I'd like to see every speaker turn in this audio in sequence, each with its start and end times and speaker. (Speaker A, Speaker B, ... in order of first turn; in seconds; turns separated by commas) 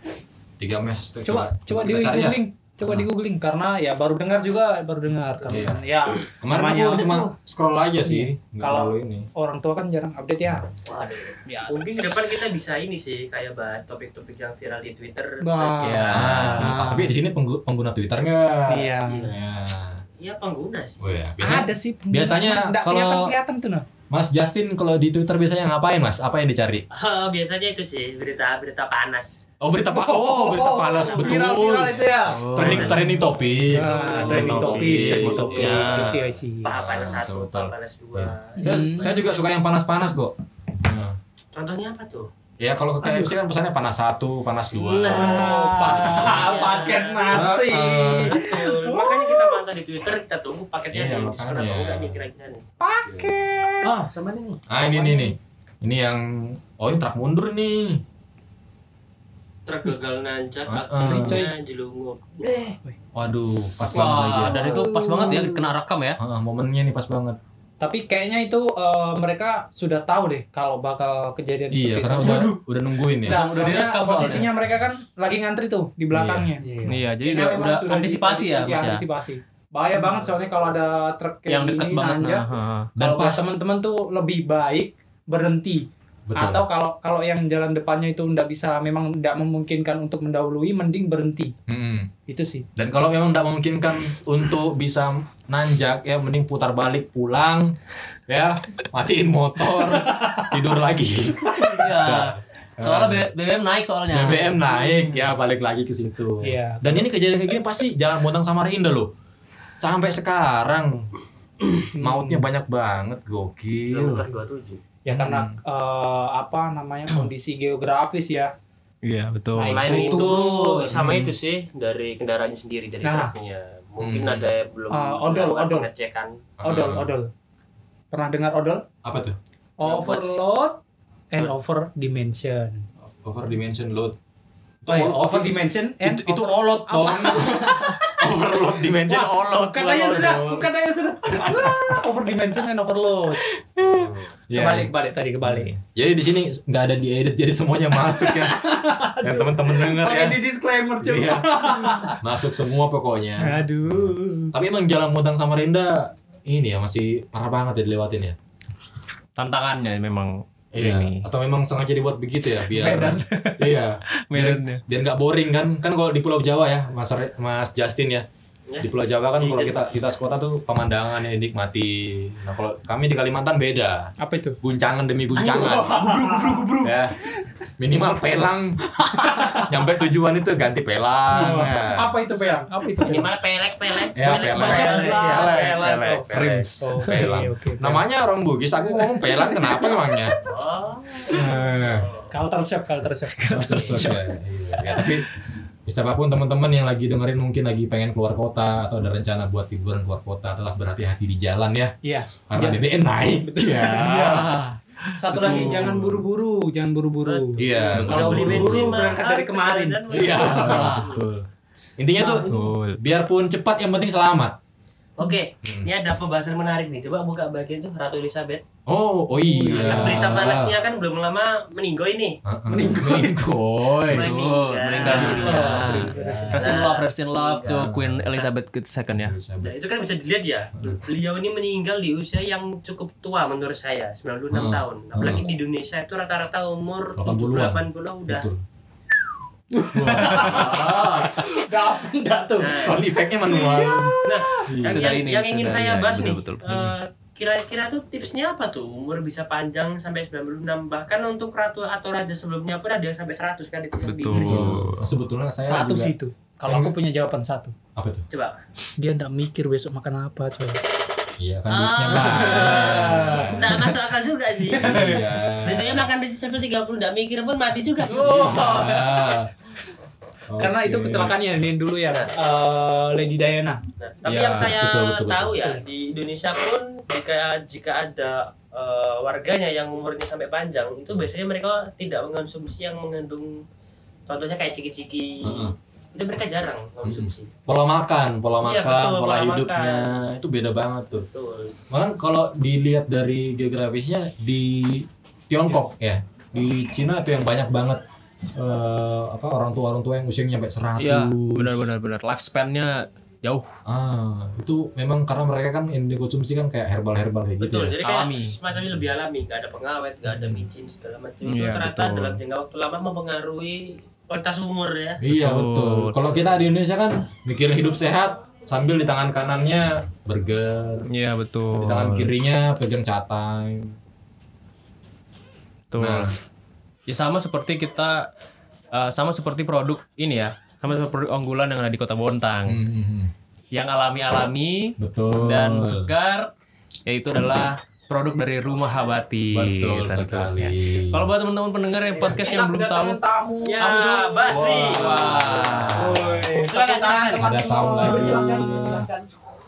Speaker A: 0.6-3.1, Speaker B: 1.2-7.3, Speaker A: 5.5-9.3, Speaker B: 8.0-10.7, Speaker A: 10.4-10.7, Speaker C: 10.8-16.1, Speaker B: 11.4-12.2, Speaker B: 15.4-17.1, Speaker D: 15.8-16.7, Speaker A: 16.1-20.0, Speaker B: 18.7-19.3, Speaker C: 19.0-19.3, Speaker C: 20.2-21.0, Speaker A: 21.0-23.3, Speaker B: 21.4-23.9, Speaker A: 24.1-26.8, Speaker C: 26.9-29.4, Speaker A: 29.6-36.1, Speaker B: 29.9-36.7, Speaker D: 32.3-33.0, Speaker C: 32.6-32.9, Speaker C: 33.9-34.7, Speaker D: 34.1-36.2, Speaker C: 35.5-36.1, Speaker C: 36.6-38.6, Speaker A: 36.6-41.1, Speaker B: 38.6-39.1, Speaker C: 41.5-42.3, Speaker A: 42.6-46.6, Speaker B: 43.0-43.3, Speaker C: 44.9-52.7, Speaker B: 45.0-49.6, Speaker A: 47.3-48.4, Speaker A: 50.9-52.2, Speaker B: 52.9-53.9, Speaker A: 52.9-53.8, Speaker E: 53.8-55.3, Speaker A: 54.7-58.0, Speaker C: 59.6-62.8, Speaker A: 60.6-61.4, Speaker B: 61.0-61.5, Speaker A: 63.1-64.8, Speaker D: 63.9-66.2, Speaker B: 64.2-65.7, Speaker A: 66.2-67.4, Speaker B: 67.8-72.6, Speaker A: 71.7-74.8, Speaker D: 72.1-72.6, Speaker B: 73.2-91.5, Speaker D: 73.2-74.5, Speaker A: 76.1-76.5, Speaker D: 76.8-79.0, Speaker D: 81.5-82.9, Speaker A: 83.0-83.4, Speaker A: 86.3-86.6, Speaker A: 91.7-92.1, Speaker B: 92.3-92.7, Speaker A: 92.8-97.7, Speaker A: 98.3-103.3, Speaker D: 101.6-104.5, Speaker A: 104.1-109.1, Speaker B: 104.6-105.3, Speaker B: 106.4-107.0, Speaker A: 109.8-111.1, Speaker A: 111.9-114.2, Speaker B: 111.9-112.5, Speaker C: 113.9-114.8, Speaker B: 115.0-118.5, Speaker A: 115.1-115.6, Speaker D: 119.0-119.9, Speaker B: 119.5-121.1, Speaker C: 119.6-126.4, Speaker E: 120.3-120.8, Speaker D: 120.9-121.2, Speaker B: 123.0-123.3, Speaker A: 124.0-124.5, Speaker B: 124.9-125.9, Speaker A: 126.6-127.1, Speaker B: 126.6-127.3, Speaker B: 128.1-128.8, Speaker A: 129.0-129.4, Speaker B: 129.8-130.8, Speaker D: 129.9-130.3, Speaker B: 131.3-132.8, Speaker A: 133.1-134.2, Speaker A: 134.8-140.7, Speaker B: 134.9-138.3, Speaker B: 138.9-145.7, Speaker A: 141.2-142.0, Speaker A: 143.8-144.9, Speaker A: 145.4-150.4, Speaker B: 147.9-152.2, Speaker A: 151.0-158.4, Speaker B: 153.4-154.5, Speaker D: 159.4-161.2, Speaker A: 160.7-168.2, Speaker D: 162.7-163.7, Speaker D: 164.3-164.8, Speaker C: 168.7-169.8, Speaker A: 168.8-174.1, Speaker B: 174.2-174.6, Speaker A: 174.6-177.2, Speaker B: 175.3-177.4, Speaker A: 177.8-178.8, Speaker B: 178.9-179.8, Speaker A: 179.5-182.1, Speaker B: 181.3-183.3, Speaker C: 183.0-186.2, Speaker B: 184.0-186.2, Speaker A: 184.1-190.3, Speaker D: 186.3-187.2, Speaker B: 186.8-188.0, Speaker B: 188.9-190.2, Speaker C: 190.4-192.3, Speaker A: 191.2-192.1, Speaker B: 192.3-194.1, Speaker D: 193.4-194.3, Speaker A: 193.5-195.3, Speaker D: 194.9-195.1, Speaker A: 195.8-201.9, Speaker B: 202.0-204.6, Speaker A: 202.4-204.5, Speaker D: 204.0-205.9, Speaker B: 205.1-210.9, Speaker A: 205.3-206.2, Speaker C: 207.2-211.3, Speaker A: 207.6-209.2, Speaker A: 210.1-211.4, Speaker D: 210.6-211.0, Speaker A: 212.0-214.5, Speaker D: 212.4-213.0, Speaker C: 215.2-218.6, Speaker A: 215.6-215.9, Speaker A: 218.9-220.8, Speaker B: 219.4-220.1, Speaker D: 219.7-220.5, Speaker C: 219.7-222.4, Speaker A: 222.4-224.4, Speaker B: 222.7-223.3, Speaker C: 224.1-227.8, Speaker D: 224.1-229.3, Speaker A: 225.0-226.8, Speaker B: 225.0-226.7, Speaker A: 227.6-228.3, Speaker A: 229.2-229.7, Speaker C: 229.6-238.5, Speaker A: 234.5-235.5, Speaker A: 237.2-238.6, Speaker B: 239.7-242.9, Speaker A: 239.9-241.5, Speaker C: 240.5-240.8, Speaker C: 242.6-243.0, Speaker A: 242.7-244.1, Speaker B: 243.4-244.7, Speaker C: 244.2-254.7, Speaker A: 244.7-245.0, Speaker D: 244.8-246.6, Speaker A: 246.7-246.9, Speaker D: 254.0-255.1, Speaker A: 254.3-256.9, Speaker B: 255.6-257.7, Speaker A: 257.9-258.2, Speaker C: 258.3-258.6, Speaker B: 259.0-260.8, Speaker A: 261.4-263.9, Speaker C: 261.7-268.8, Speaker B: 262.5-263.5, Speaker A: 264.7-266.1, Speaker B: 264.9-265.2, Speaker B: 268.1-269.2, Speaker A: 268.1-269.5, Speaker A: 270.5-271.4, Speaker B: 270.6-273.8, Speaker C: 274.0-283.6, Speaker A: 274.2-275.6, Speaker C: 284.3-287.5, Speaker A: 285.4-285.7, Speaker A: 287.0-291.3, Speaker C: 288.6-290.1, Speaker C: 291.3-291.8, Speaker A: 291.9-298.0, Speaker A: 298.6-301.8, Speaker D: 301.0-303.7, Speaker A: 303.9-307.9, Speaker C: 307.6-315.2, Speaker D: 308.0-308.5, Speaker A: 308.7-309.0, Speaker A: 310.2-310.7, Speaker D: 311.4-312.4, Speaker A: 315.2-321.1, Speaker D: 315.3-316.1, Speaker D: 321.1-322.3, Speaker A: 321.7-323.9, Speaker D: 325.9-326.3, Speaker A: 326.0-326.4, Speaker D: 327.1-328.3, Speaker D: 328.9-332.8, Speaker A: 332.7-333.3, Speaker D: 333.7-336.5, Speaker A: 335.0-336.1, Speaker D: 337.1-343.2, Speaker A: 339.5-341.3, Speaker B: 342.2-345.0, Speaker C: 343.6-348.7, Speaker A: 344.5-346.5, Speaker D: 344.7-346.3, Speaker B: 345.9-349.3, Speaker A: 347.4-349.1